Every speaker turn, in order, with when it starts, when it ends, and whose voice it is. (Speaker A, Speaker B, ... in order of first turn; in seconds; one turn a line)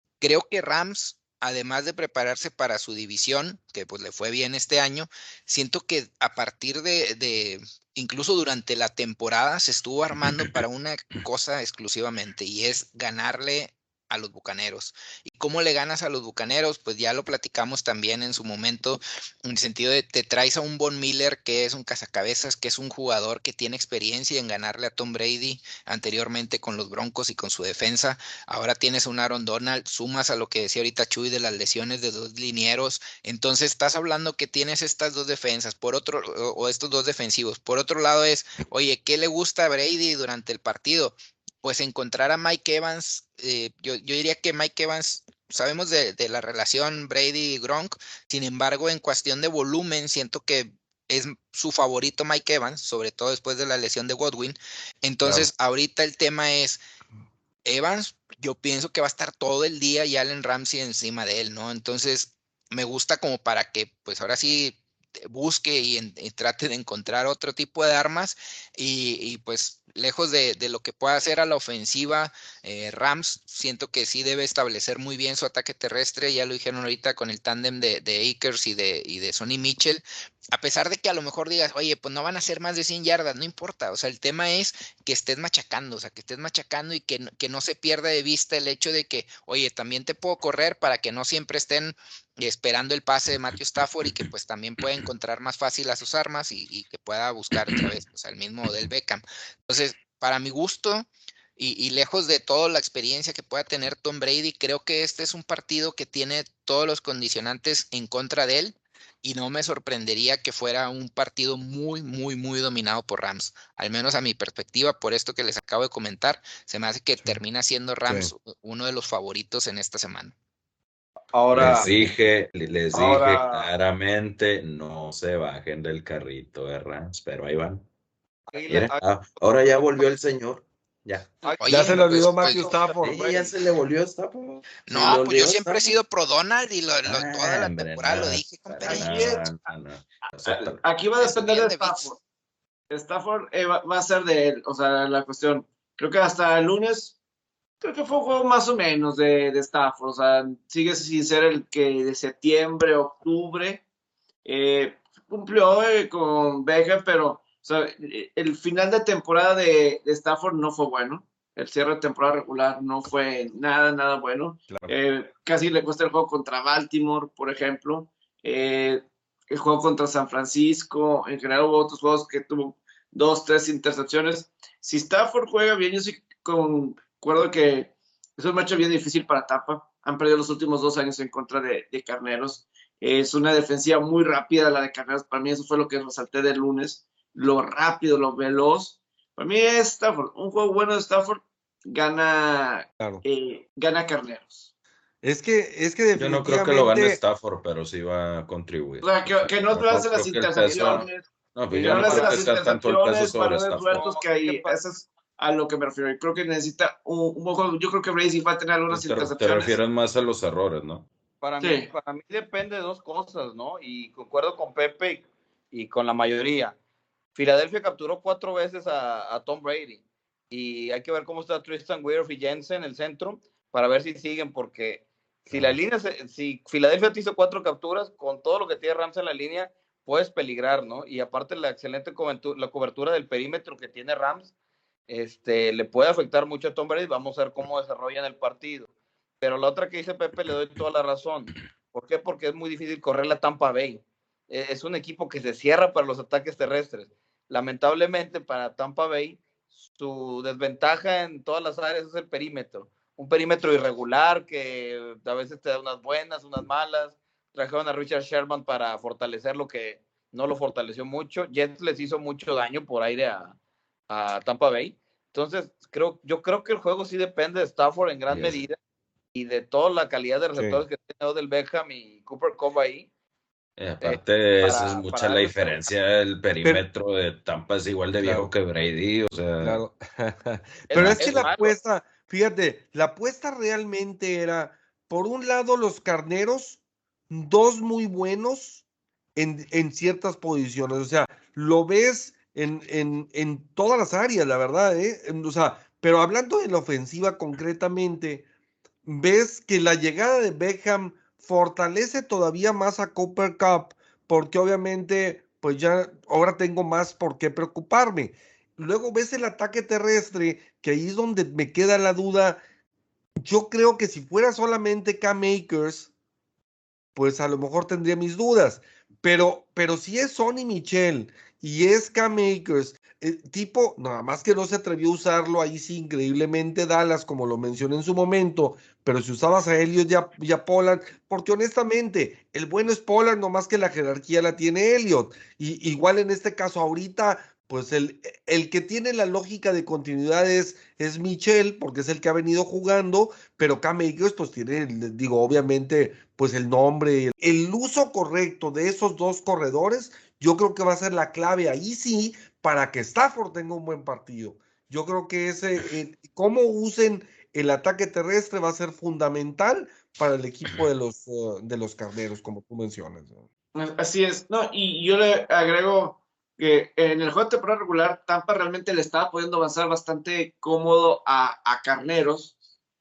Speaker A: 0.2-56.8
Speaker A: 57.6-120.3
Speaker B: 118.1-118.3
Speaker C: 121.3-121.9
Speaker D: 121.5-127.8
Speaker C: 122.9-123.7
Speaker C: 128.5-129.0
Speaker D: 128.7-131.4
Speaker C: 131.4-131.9
Speaker A: 131.6-132.7
Speaker B: 131.7-133.5
Speaker D: 132.8-136.0
Speaker A: 134.9-139.1
Speaker D: 137.1-140.8
Speaker E: 138.8-139.4
Speaker E: 140.5-142.2
Speaker A: 141.2-142.1
Speaker E: 142.9-147.2
Speaker E: 147.8-153.8
Speaker E: 154.4-194.7
Speaker B: 195.2-197.2
Speaker D: 196.2-204.1
Speaker E: 199.0-209.8
Speaker C: 200.6-201.1
Speaker C: 201.8-202.8
Speaker C: 203.9-204.8
Speaker D: 208.9-211.1
Speaker C: 211.4-216.8
Speaker E: 211.6-211.9
Speaker C: 217.3-234.5
Speaker C: 235.1-238.9
Speaker C: 239.4-249.4
Speaker C: 250.0-263.6
Speaker C: 264.1-268.8
Speaker D: 268.3-268.6
Speaker C: 269.3-273.1
Speaker B: 270.6-270.8
Speaker D: 273.8-279.8
Speaker C: 274.0-275.9
Speaker B: 278.2-278.5
Speaker B: 279.6-288.8
Speaker C: 280.9-281.8
Speaker D: 280.9-281.5
Speaker B: 289.4-298.5
Speaker B: 299.1-312.6
Speaker B: 313.4-316.1
Speaker B: 317.2-363.4
Speaker E: 363.8-372.5